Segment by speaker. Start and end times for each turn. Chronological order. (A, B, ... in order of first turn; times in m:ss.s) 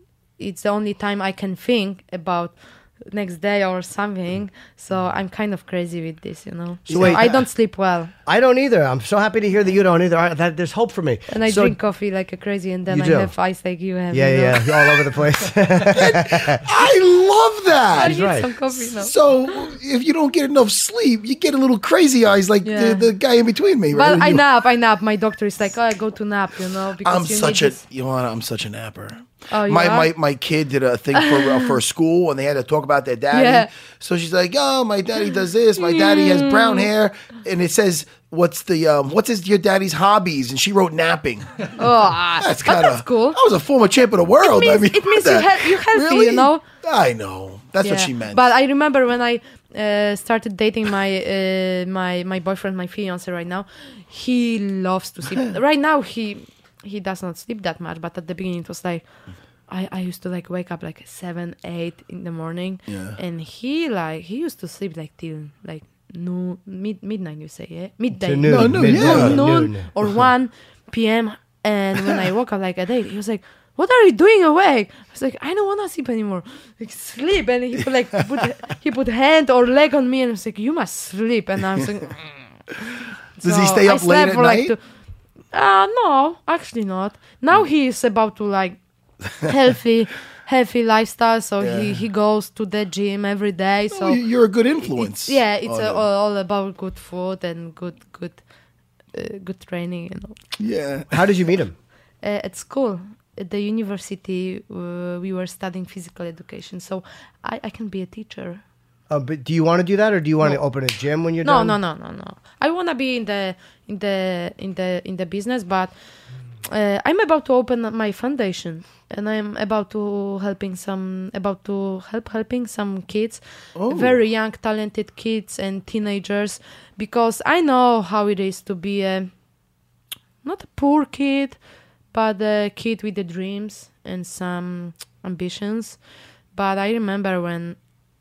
0:00.4-0:08.1 A
0:06.9-0:07.4 B
0:06.9-0:07.5 C
0:08.2-0:11.8 C
0:11.3-0:14.9 A
0:12.9-0:13.3 C
0:14.1-0:16.6 C
0:15.9-0:24.4 B
0:18.0-0:19.1 A
0:18.0-0:18.5 C
0:22.6-0:23.1 A
0:23.9-0:27.8 A
0:27.0-0:41.8 B
0:29.5-0:30.1 A
0:31.1-0:31.7 A
0:33.3-0:33.7 A
0:35.8-0:36.9 A
0:41.8-0:43.4 A
0:42.4-0:48.4 B
0:44.4-0:46.6 A
0:47.8-0:59.0 A
0:59.7-1:22.4 A
1:02.9-1:03.2 B
1:08.1-1:09.9 C
1:08.4-1:09.5 B
1:23.4-1:24.8 A
1:23.4-1:24.7 B
1:25.5-1:28.8 A
1:29.4-1:34.2 A
1:31.6-1:32.0 B
1:33.9-1:36.0 B
1:34.8-1:38.4 A
1:39.1-1:40.3 A
1:40.6-1:41.2 B
1:41.1-1:41.7 C
1:42.2-1:48.6 A
1:49.1-1:51.8 C
1:51.4-1:55.9 A
1:56.7-2:09.3 A
2:03.8-2:04.2 B
2:10.4-2:11.6 A
2:12.1-2:16.0 A
2:16.5-2:17.8 A